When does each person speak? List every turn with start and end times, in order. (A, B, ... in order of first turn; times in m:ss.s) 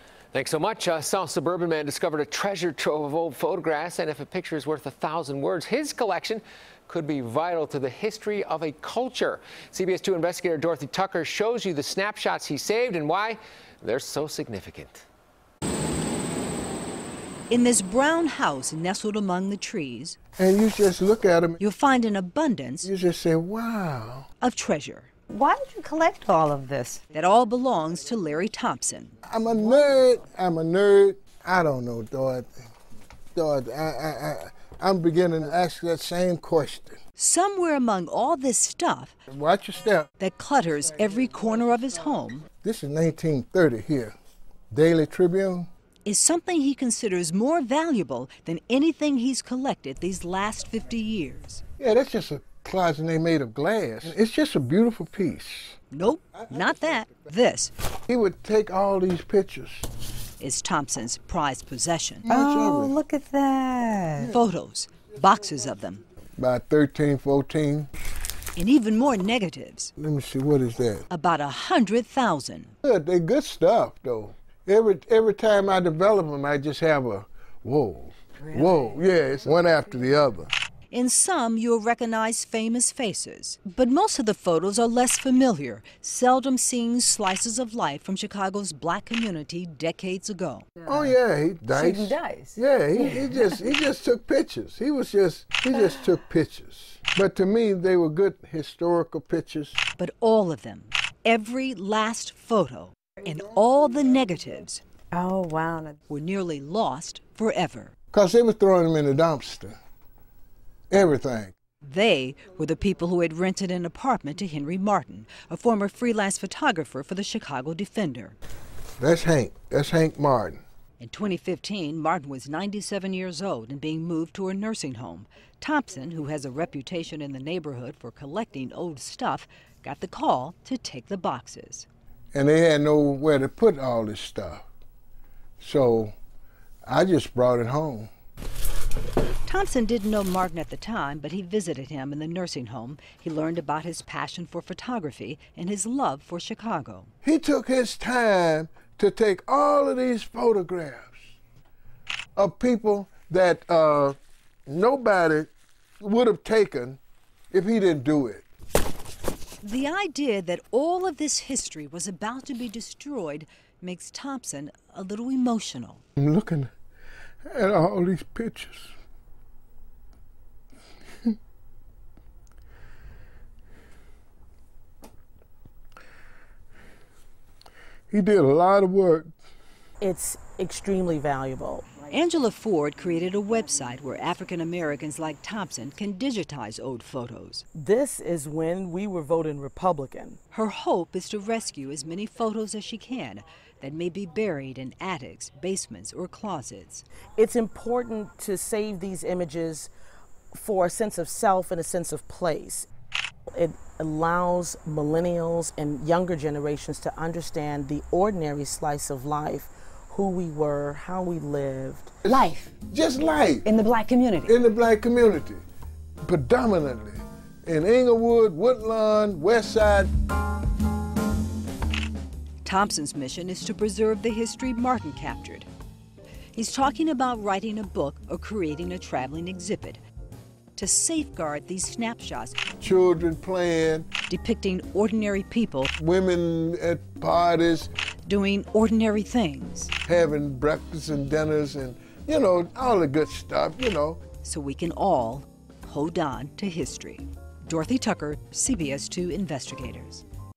0:00.3-0:15.0 A
0:17.5-0:20.2 B
0:20.4-0:21.6 C
0:21.6-0:22.9 B
0:22.8-0:24.3 C
0:24.4-0:25.1 B
0:25.3-0:27.0 D
0:27.1-0:29.2 B
0:29.3-0:32.5 C
0:33.4-0:37.0 C
0:37.2-0:39.1 B
0:39.3-0:40.1 C
0:40.2-0:42.5 B
0:42.6-0:44.2 C
0:44.7-0:45.7 C
0:46.0-0:51.6 B
0:51.8-0:55.8 C
0:55.9-0:57.7 B
0:58.1-0:59.9 C
1:00.4-1:02.2 B
1:02.3-1:03.0 C
1:02.3-1:04.3 D
1:04.2-1:06.0 B
1:06.4-1:07.9 C
1:08.6-1:09.9 B
1:10.0-1:11.0 C
1:11.1-1:12.7 B
1:12.8-1:20.5 C
1:20.9-1:30.7 B
1:30.8-1:31.1 D
1:30.9-1:39.8 C
1:31.7-1:33.4 D
1:40.0-1:44.8 B
1:45.1-1:46.0 D
1:46.1-1:47.9 B
1:48.1-1:49.8 C
1:50.9-1:51.5 C
1:51.8-1:58.4 B
1:59.0-2:00.6 C
2:01.0-2:11.9 B
2:12.3-2:14.7 C
2:15.6-2:16.1 C
2:16.9-2:18.1 C
2:19.5-2:27.1 B
2:27.2-2:31.2 C
2:32.4-2:37.0 C
2:37.5-2:38.5 C
2:39.6-2:46.0 B
2:46.2-2:46.7 C
2:47.5-2:48.9 C
2:58.1-2:59.3 C
3:00.0-3:01.9 E
3:02.1-3:07.6 B
3:07.8-3:10.4 E
3:10.5-3:17.0 B
3:17.4-3:19.9 E
3:20.5-3:22.9 E
3:23.5-3:32.2 E
3:32.2-3:33.7 C
3:32.3-3:32.7 D
3:33.6-3:34.5 D
3:34.4-3:35.6 C
3:36.2-3:40.1 C
3:42.6-3:45.7 B
3:46.6-3:50.0 B
3:50.8-3:52.6 B
3:52.8-3:54.1 C
3:54.3-3:55.9 B
3:56.0-3:57.9 C
3:58.3-3:59.9 B
4:00.0-4:04.2 C
4:04.4-4:10.2 B